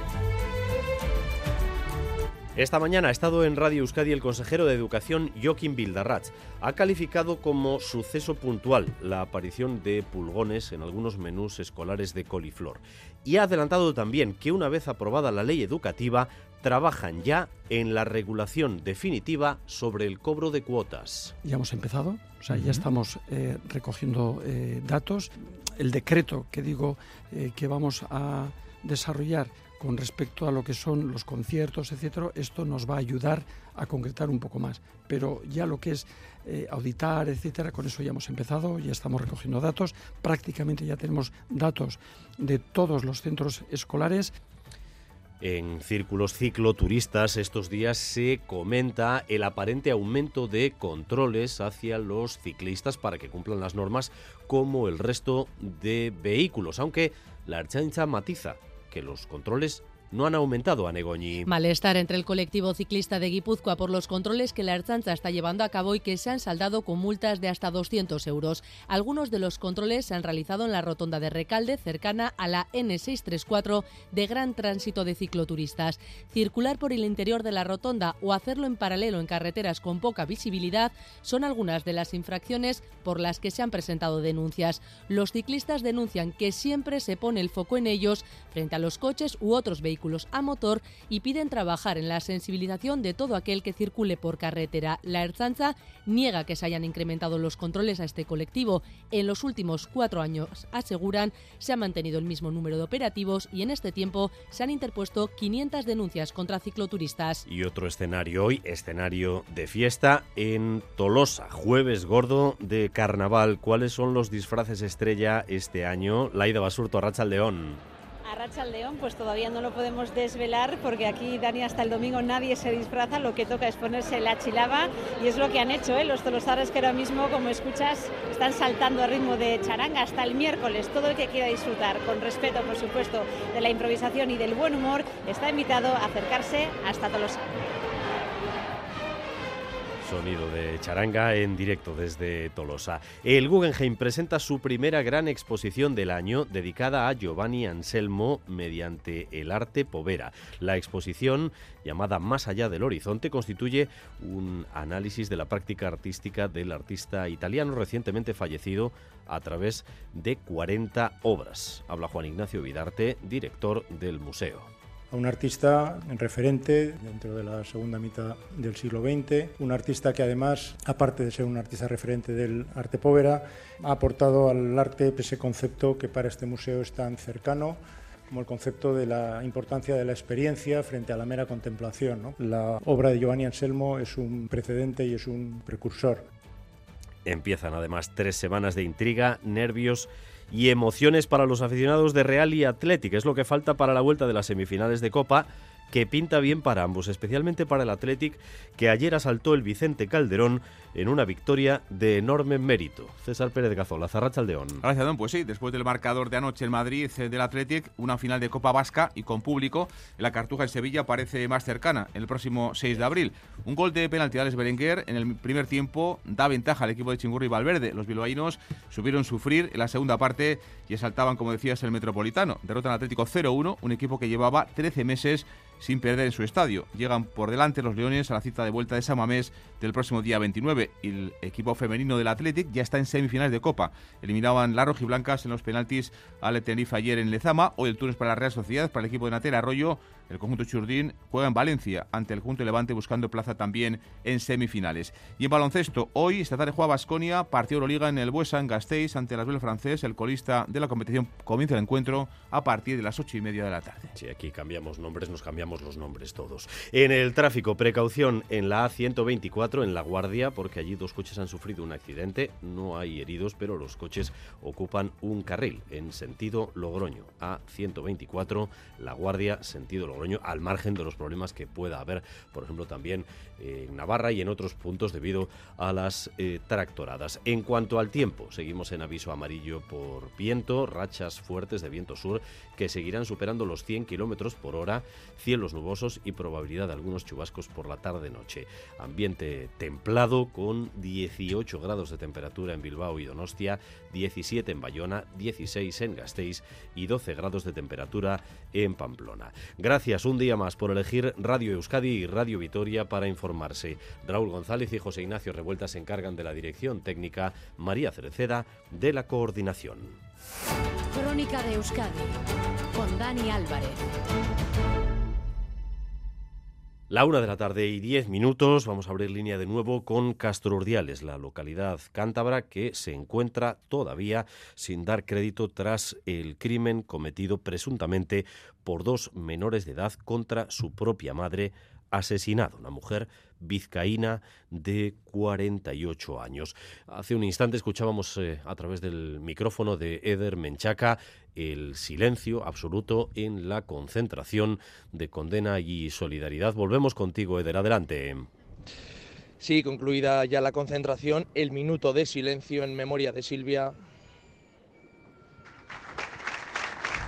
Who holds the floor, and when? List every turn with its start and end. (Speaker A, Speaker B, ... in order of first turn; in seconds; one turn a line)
Speaker A: 2.5-21.3
Speaker B: 21.4-44.3
Speaker A: 45.4-61.5
Speaker C: 61.5-107.4
Speaker A: 107.5-117.8
Speaker D: 118.2-137.6
Speaker A: 140.0-164.7
Speaker E: 165.1-186.3
Speaker A: 187.2-204.8
Speaker F: 204.8-254.1
Speaker A: 254.2-310.2
Speaker G: 311.1-314.1
Speaker A: 317.1-348.5
Speaker H: 349.6-354.0